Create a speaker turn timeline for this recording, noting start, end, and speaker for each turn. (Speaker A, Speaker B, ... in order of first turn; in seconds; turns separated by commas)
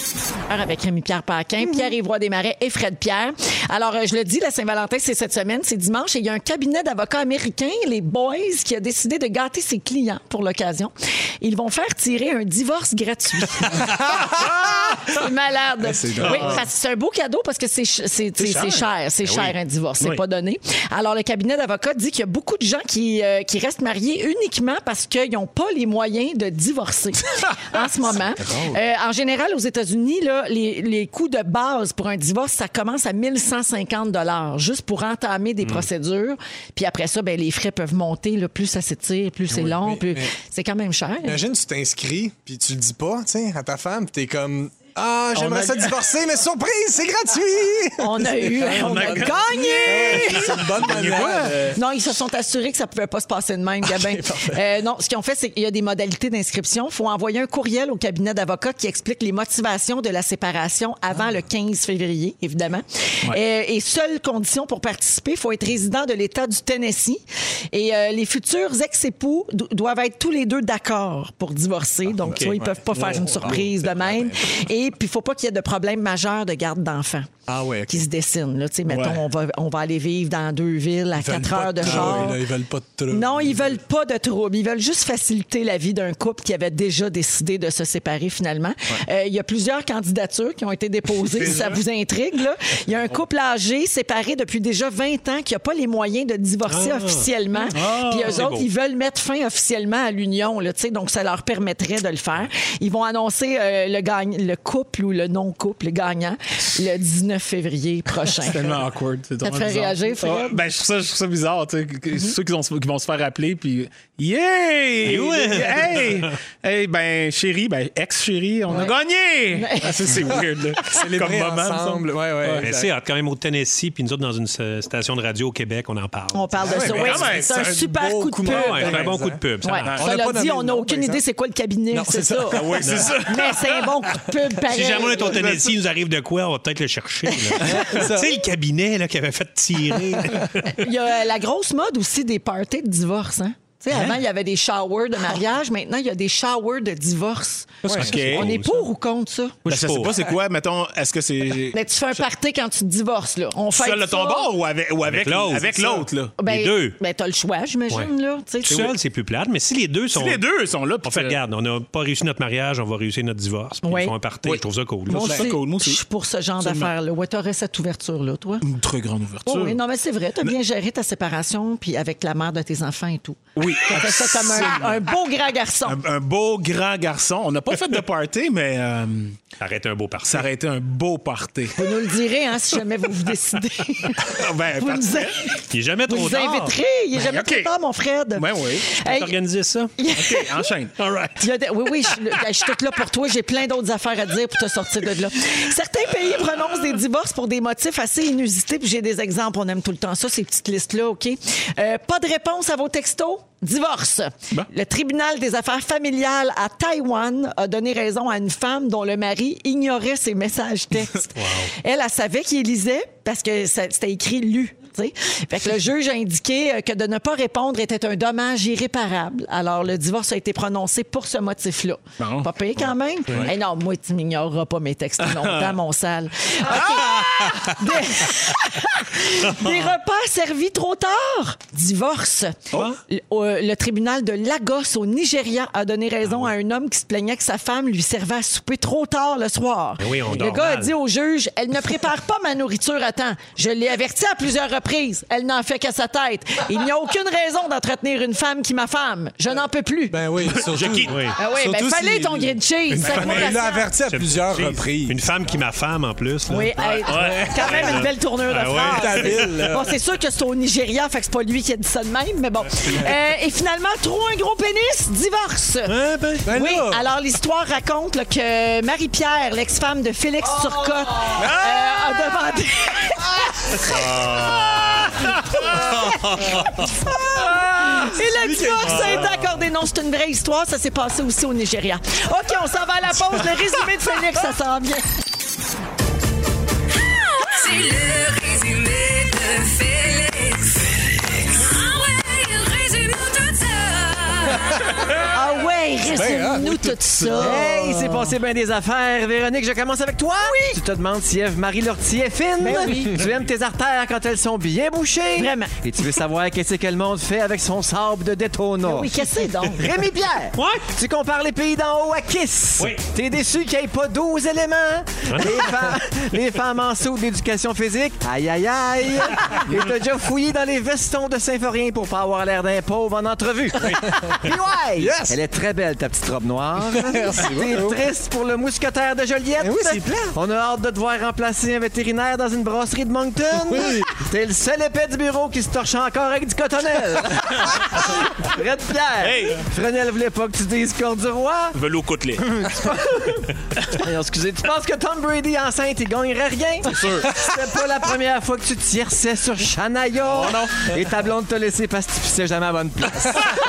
Speaker A: 0.5-41.4, Speaker B: 16.0-16.6, Speaker C: 16.1-16.5, Speaker B: 18.4-19.4, Speaker C: 28.5-28.8, Speaker C: 39.5-40.3, Speaker C: 41.2-51.7, Speaker B: 45.3-46.0, Speaker A: 48.0-67.2, Speaker B: 48.6-51.8, Speaker C: 53.9-54.6, Speaker A: 67.7-77.3, Speaker B: 72.3-73.7, Speaker C: 72.4-74.4, Speaker C: 77.5-78.0, Speaker A: 77.9-82.4, Speaker B: 78.9-79.3, Speaker C: 81.2-83.8, Speaker B: 81.8-82.3, Speaker A: 83.1-108.8, Speaker C: 91.4-91.8, Speaker D: 96.7-97.3, Speaker B: 97.7-98.5, Speaker D: 98.2-98.7, Speaker B: 108.2-122.7, Speaker A: 109.4-110.6, Speaker D: 115.0-116.3, Speaker A: 119.5-120.3, Speaker C: 120.8-122.9, Speaker D: 122.6-126.6, Speaker A: 126.3-129.0, Speaker C: 126.6-131.2, Speaker B: 126.8-127.5, Speaker D: 128.5-129.9, Speaker A: 129.6-135.5, Speaker B: 129.8-130.1, Speaker C: 131.9-133.2, Speaker B: 132.6-133.9, Speaker D: 132.8-133.1, Speaker D: 134.7-140.8, Speaker A: 137.3-137.8, Speaker C: 137.7-138.4, Speaker A: 140.7-149.6, Speaker B: 147.9-148.6, Speaker D: 147.9-148.9, Speaker D: 149.7-150.2, Speaker B: 149.7-152.3, Speaker A: 151.7-154.5, Speaker B: 153.8-156.3, Speaker D: 155.0-157.0, Speaker A: 156.4-158.9, Speaker D: 158.7-160.5, Speaker B: 160.1-161.4, Speaker D: 161.0-165.5, Speaker A: 163.8-164.1, Speaker B: 164.4-166.0, Speaker A: 165.1-168.7, Speaker B: 166.6-166.9, Speaker B: 168.6-169.8, Speaker A: 169.4-176.0, Speaker B: 173.6-175.1, Speaker B: 175.8-179.4, Speaker D: 179.6-180.5, Speaker B: 180.2-181.9, Speaker A: 181.8-189.3, Speaker B: 184.2-185.3, Speaker D: 185.7-186.8, Speaker B: 187.2-187.7, Speaker B: 188.3-188.9, Speaker D: 189.0-189.9, Speaker A: 190.0-190.7, Speaker B: 190.2-191.0, Speaker D: 191.0-191.3, Speaker A: 191.4-250.2, Speaker D: 211.4-211.7, Speaker B: 222.2-222.5, Speaker B: 225.2-225.7, Speaker D: 240.0-240.9, Speaker C: 250.1-255.2, Speaker B: 250.6-251.2, Speaker D: 251.1-251.3, Speaker A: 251.4-253.9, Speaker D: 252.9-259.5, Speaker A: 256.5-265.9, Speaker B: 257.0-257.5, Speaker C: 257.1-258.1, Speaker C: 258.6-259.9, Speaker D: 265.9-266.5, Speaker C: 266.4-267.1, Speaker A: 266.5-273.9, Speaker D: 273.9-275.3, Speaker B: 274.2-274.6, Speaker A: 275.7-285.1, Speaker D: 276.0-276.7, Speaker C: 278.1-279.4, Speaker D: 278.9-279.2, Speaker E: 287.1-295.1, Speaker A: 295.3-298.2, Speaker C: 296.1-297.2, Speaker F: 297.4-341.8, Speaker A: 300.4-300.8, Speaker A: 302.6-303.2, Speaker A: 305.4-305.7, Speaker A: 308.8-309.9, Speaker D: 310.6-310.9, Speaker D: 315.3-315.7, Speaker C: 323.9-324.4, Speaker C: 325.0-325.4, Speaker C: 326.9-328.0, Speaker C: 329.6-330.4, Speaker C: 333.7-334.1, Speaker B: 339.2-339.6, Speaker B: 341.7-342.7, Speaker F: 342.5-353.5, Speaker B: 346.9-347.3, Speaker B: 350.3-350.9, Speaker C: 353.2-353.6